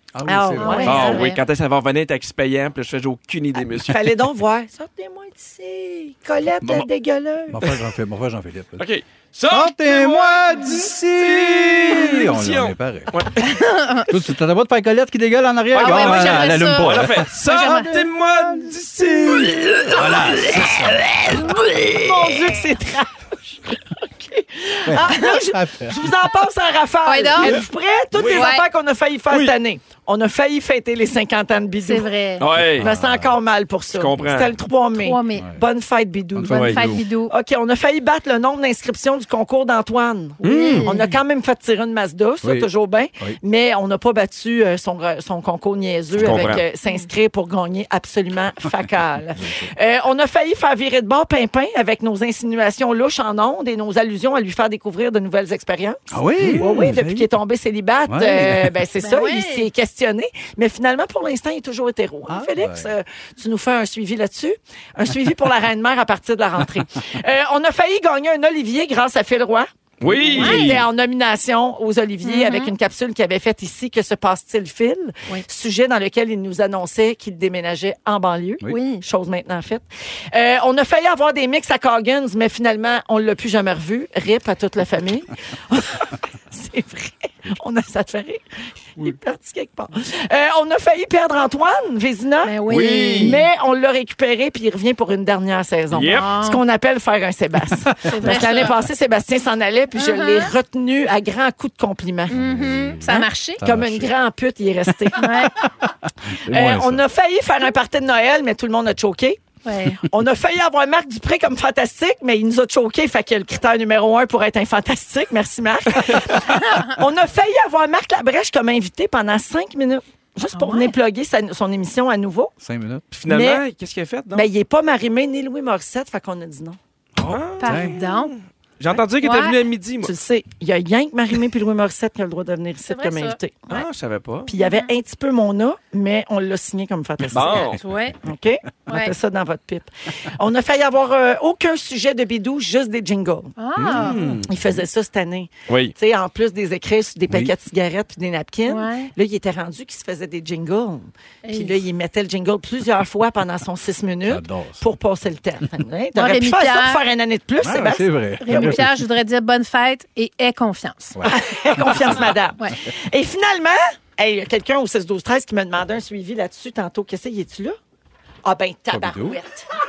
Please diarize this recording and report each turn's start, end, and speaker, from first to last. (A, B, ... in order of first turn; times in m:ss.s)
0:00.2-0:01.2 A
0:00.3-0:01.3 B
0:00.6-0:01.4 C
0:00.9-0:04.1 D
0:03.8-0:07.6 B
0:06.6-0:06.9 A
0:07.5-0:08.8 A
0:08.8-0:13.7 D
0:09.5-0:13.2 A
0:13.4-0:14.1 C
0:14.1-0:18.2 A
0:15.7-0:20.0 D
0:15.8-0:18.0 C
0:19.9-0:22.1 A
0:22.0-0:32.1 B
0:24.9-0:26.1 A
0:27.1-0:27.6 C
0:28.2-0:28.5 D
0:28.3-0:28.7 C
0:29.3-0:29.6 D
0:31.8-0:32.5 C
0:32.4-0:32.9 D
0:32.5-0:33.4 A
0:32.8-0:36.7 B
0:33.9-0:34.5 D
0:35.0-0:35.5 C
0:35.4-0:35.6 A
0:36.4-0:37.0 A
0:36.4-0:37.3 C
0:36.5-0:36.8 D
0:37.3-0:56.0 B
0:40.4-0:41.0 D
0:40.4-0:41.0 C
0:42.4-0:43.4 A
0:46.1-0:46.6 A
0:46.2-0:46.6 D
0:49.4-0:49.7 A
0:56.1-0:57.3 A
0:56.4-0:56.7 D
0:56.6-1:28.4 B
0:58.1-0:58.8 A
0:59.0-0:59.7 C
1:02.3-1:02.9 A
1:10.0-1:10.9 D
1:10.3-1:10.7 C
1:12.2-1:12.7 C
1:18.7-1:19.0 C
1:29.0-1:42.4 B
1:32.4-1:33.4 C
1:32.7-1:33.4 D
1:35.9-1:36.3 D
1:36.1-1:36.6 C
1:38.1-1:38.8 C
1:40.0-1:40.5 C
1:42.3-1:43.6 C
1:42.3-1:43.0 A
1:43.0-1:45.4 B
1:43.6-1:44.1 A
1:45.2-1:45.5 C
1:46.5-1:47.0 A
1:46.5-1:49.4 B
1:49.6-1:50.0 C
1:50.1-2:02.5 B
1:56.5-1:56.9 C
2:00.6-2:00.9 C
2:02.6-2:03.0 A
2:03.1-2:04.5 D
2:03.3-2:03.6 B
2:04.3-2:06.8 B
2:07.2-2:08.0 A
2:07.2-2:10.1 D
2:07.6-2:08.3 C
2:09.0-2:09.6 C
2:10.0-2:13.8 B
2:12.9-2:13.4 C
2:13.7-2:14.5 D
2:14.5-2:23.5 B
2:14.6-2:14.9 C
2:17.3-2:17.8 D
2:17.5-2:18.2 C
2:18.9-2:19.1 C
2:23.6-2:24.2 C
2:23.8-2:24.4 A
2:23.8-2:24.5 D
2:24.5-2:38.8 B
2:28.7-2:29.1 C
2:31.4-2:31.8 C
2:34.2-2:34.8 A
2:36.2-2:37.0 C
2:37.6-2:39.1 A
2:38.4-2:41.2 C
2:41.2-2:42.3 A
2:41.2-2:47.8 B
2:48.4-2:49.7 B
2:48.9-2:49.4 A